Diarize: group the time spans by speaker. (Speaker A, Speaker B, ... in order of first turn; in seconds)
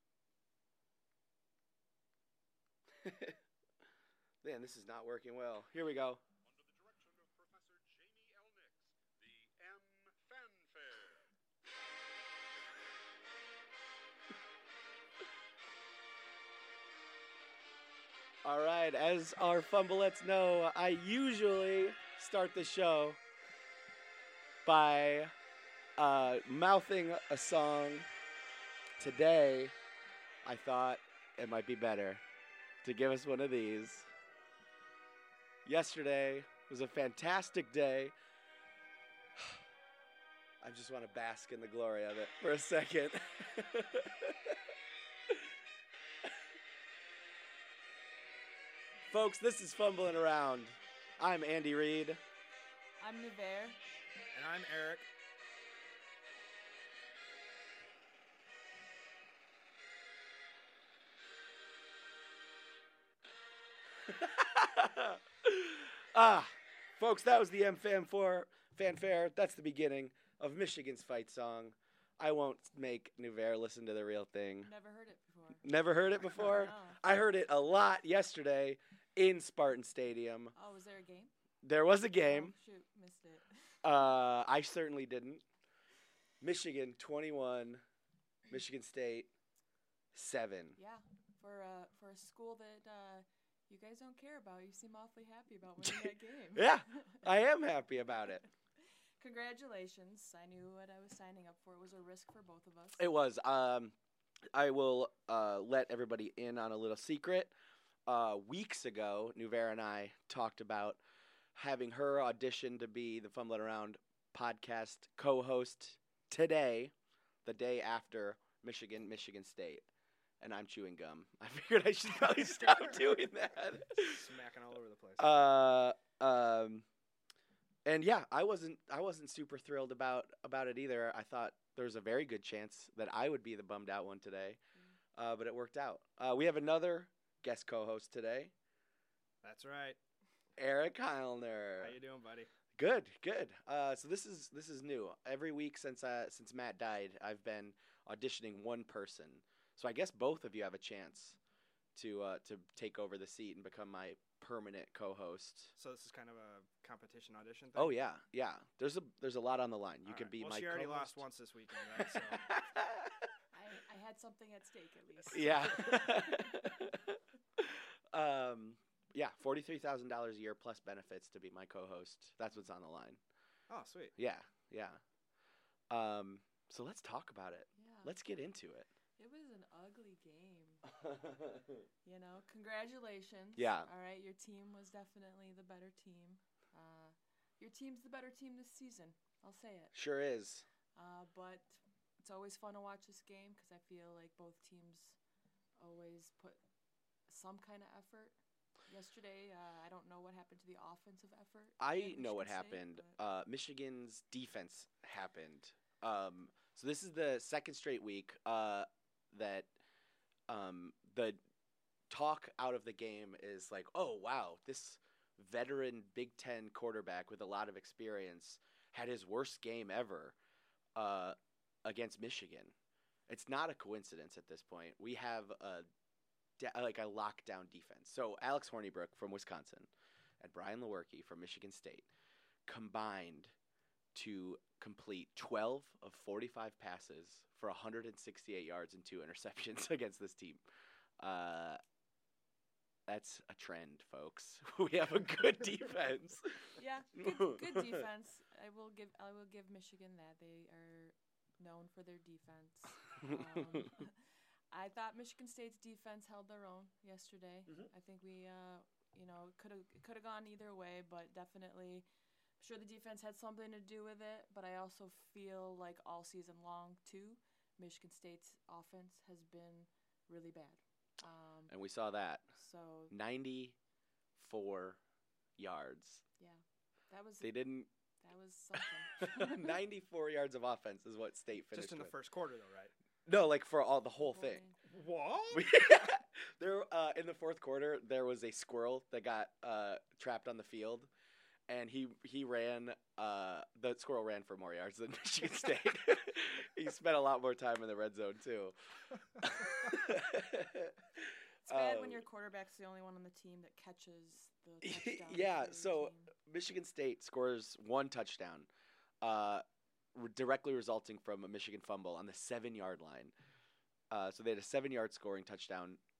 Speaker A: 3.0-3.4, 4.4-6.2, 18.4-23.2, 24.6-25.3, 26.0-28.1, 29.0-29.7, 30.4-32.2, 32.8-34.1, 35.6-38.1, 40.6-44.6, 49.1-52.2, 64.0-74.7, 75.6-80.5, 81.6-82.5, 83.8-85.4, 86.4-87.8, 88.5-89.3, 90.1-90.8, 95.8-98.4, 103.0-103.9, 104.5-107.5, 108.1-111.0, 111.5-116.9, 117.4-119.9, 120.4-124.3, 125.2-126.8, 127.8-134.6, 135.1-138.5, 140.6-142.0, 142.7-151.4, 151.9-155.7, 157.7-161.2, 162.0-163.3, 165.3-173.2, 174.2-175.0, 175.9-178.9, 181.0-181.7, 183.6-183.9, 189.9-190.7, 201.8-209.7, 210.5-211.4, 212.1-220.3, 220.9-222.7, 223.3-225.9, 226.6-232.1, 232.7-233.5, 234.1-240.6, 241.2-241.8, 243.1-248.0, 253.2-253.8, 271.7-272.5, 273.1-273.8, 274.4-275.0, 275.6-276.2, 277.4-277.9, 279.2-282.1, 283.2-284.6, 285.5-291.1, 291.7-298.8, 299.4-302.2, 304.8-308.7, 309.2-313.3, 314.1-316.0
Speaker B: 6.4-11.2
Speaker C: 53.0-53.8, 74.6-75.7, 76.3-77.0, 80.5-81.3, 82.2-83.5, 90.8-97.2, 99.2-103.0, 163.5-166.6, 177.8-178.1, 179.2-180.9, 182.0-189.9, 190.9-195.2, 195.8-196.6, 197.3-203.2, 246.8-254.2, 254.7-262.1, 262.6-271.7, 272.6-273.1, 276.4-277.6, 278.2-279.8, 284.2-284.8, 301.6-306.3
Speaker D: 54.3-55.1, 123.9-125.3, 139.4-140.0, 141.8-142.5, 155.8-157.9, 160.0-162.4, 173.7-174.1, 281.7-282.9, 284.9-285.7